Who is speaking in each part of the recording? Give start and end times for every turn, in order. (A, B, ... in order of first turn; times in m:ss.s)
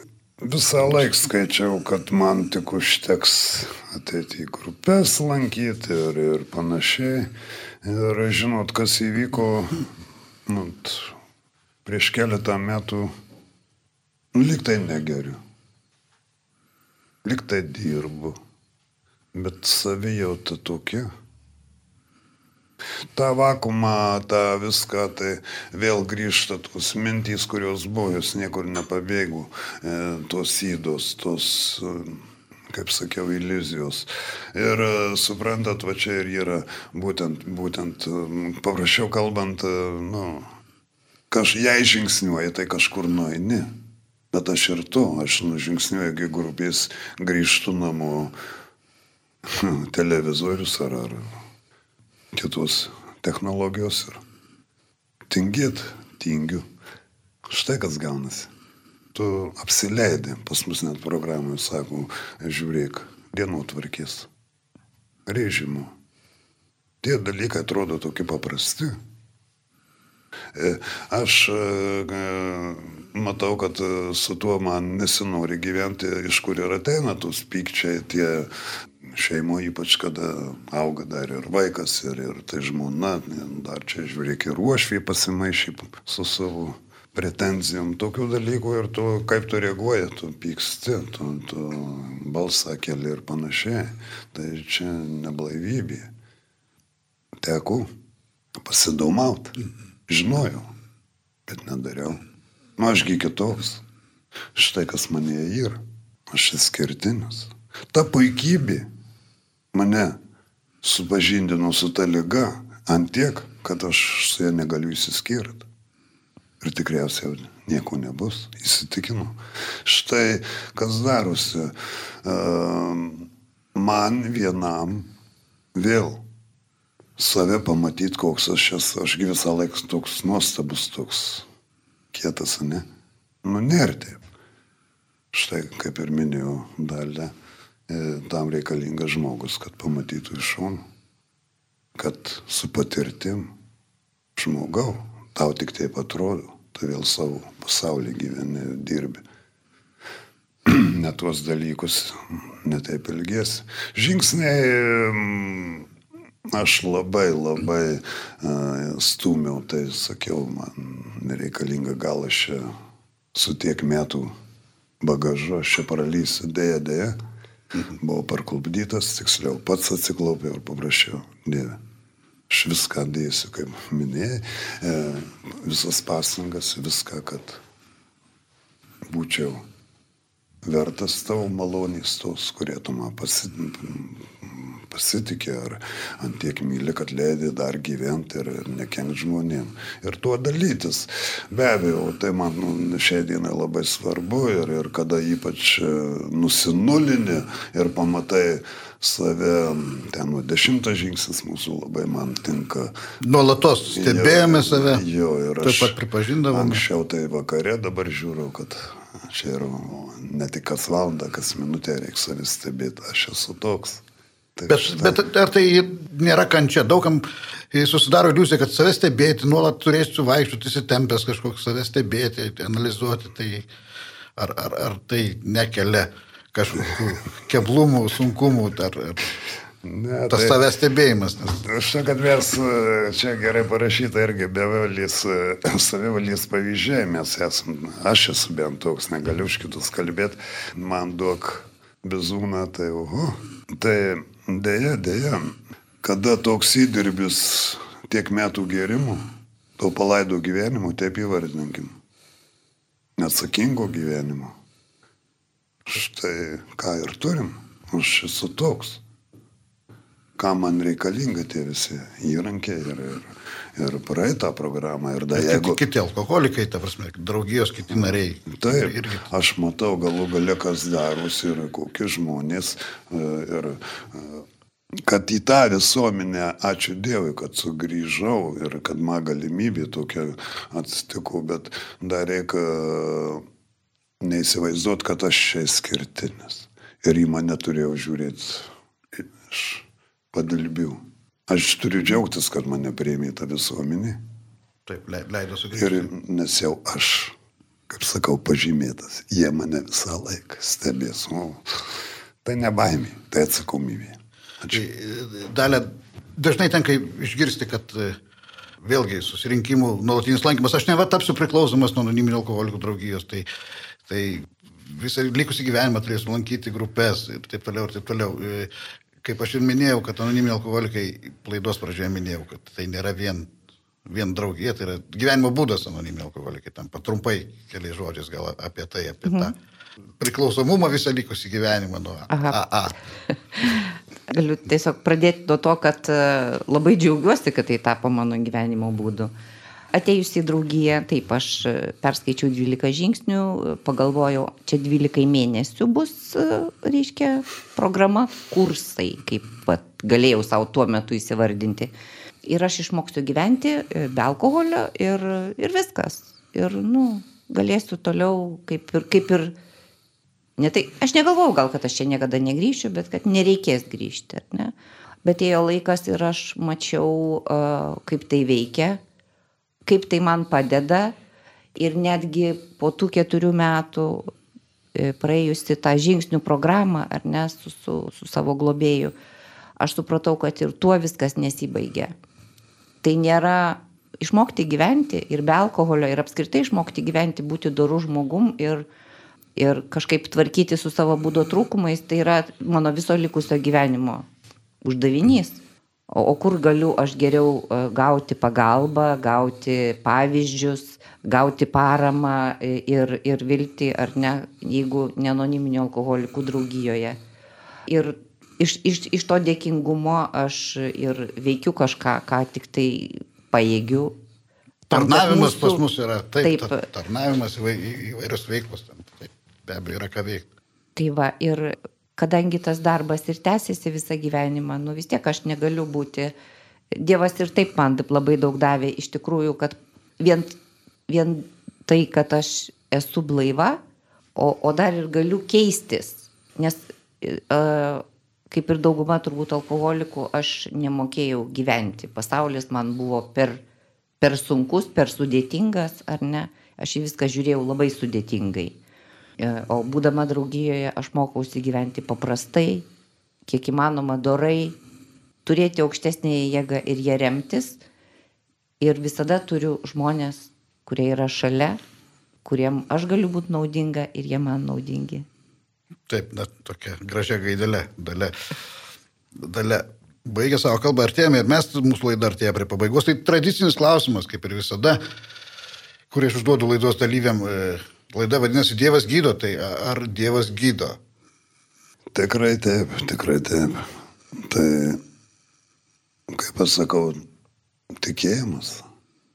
0:00.4-0:09.9 A
0:10.4-0:11.2 A
0:11.8-0:13.1 A
0:14.3-0:15.4 A
0:17.2-0:18.4 A
0:19.3-0:21.1 A
0:23.1-0:32.2 A
0:32.7-0:40.5 A
0:41.3-0:43.7 A
0:44.3-0:48.3 A
0:49.4-0:51.3 A
0:52.3-0:54.2 A
0:55.3-0:56.6 A
0:57.4-0:58.5 A
0:59.1-1:04.3 A
1:05.3-1:05.9 A
1:07.0-1:09.0 A
1:10.5-1:18.5 A
1:19.0-1:36.1 A
1:37.4-1:37.9 A
1:38.6-1:39.6 A
1:40.1-1:40.6 A
1:41.5-1:42.2 A
1:42.8-1:43.8 A
1:44.6-1:48.9 A
1:49.7-1:50.2 A
1:50.8-1:55.6 A
1:56.6-2:05.1 A
2:05.7-2:06.2 A
2:07.2-2:11.5 A
2:12.1-2:12.8 A
2:13.4-2:14.2 A
2:15.3-2:17.3 A
2:17.9-2:20.8 A
2:22.0-2:23.5 A
2:24.4-2:29.2 A
2:30.6-2:35.9 A
2:36.5-2:42.6 A
2:43.3-2:44.3 A
2:45.0-2:47.2 A
2:48.0-2:51.8 A
2:52.5-2:57.6 A
2:59.1-2:59.6 A
3:00.6-3:22.9 A
3:23.2-3:25.0 B
3:23.9-3:26.0 A
3:25.6-3:26.8 B
3:26.5-3:34.0 A
3:34.6-3:35.2 A
3:34.7-3:43.6 B
3:44.4-3:49.3 B
3:49.8-3:50.6 A
3:50.3-3:51.6 B
3:51.4-4:09.3 A
4:09.8-4:11.9 A
4:13.2-4:14.5 A
4:15.9-4:19.0 A
4:20.4-4:25.8 A
4:25.3-4:29.2 B
4:28.5-4:34.4 A
4:35.0-4:43.4 A
4:44.2-4:54.2 A
4:54.9-4:56.1 B
4:55.8-4:57.4 A
4:57.9-5:04.8 A
5:04.7-5:08.2 B
5:08.8-5:13.5 B
5:14.1-5:18.7 B
5:19.2-5:23.5 B
5:24.1-5:29.5 B
5:29.3-5:29.5 C
5:30.2-5:33.0 B
5:32.3-5:32.6 C
5:33.3-5:39.3 C
5:39.9-5:51.9 C
5:52.4-5:59.5 C
6:00.6-6:04.7 C
6:05.2-6:09.0 C
6:09.9-6:11.1 C
6:11.8-6:14.3 C
6:14.9-6:19.1 C
6:19.8-6:22.1 C
6:23.0-6:28.9 C
6:29.6-6:34.3 C
6:34.8-6:47.2 C
6:47.9-6:54.2 C
6:54.9-6:55.8 C
6:54.9-7:00.5 B
6:56.4-6:56.8 C
7:01.0-7:06.3 C
7:06.9-7:13.8 C
7:14.4-7:23.6 C
7:24.2-7:28.8 C
7:29.4-7:32.9 C
7:33.5-7:34.8 C
7:35.4-7:37.8 C
7:38.8-7:41.8 C
7:42.4-7:45.3 C
7:46.1-7:48.3 B
7:49.4-7:55.0 B
7:56.1-8:01.0 B
8:02.1-8:05.0 A
8:06.3-8:07.2 A
8:08.0-8:08.9 A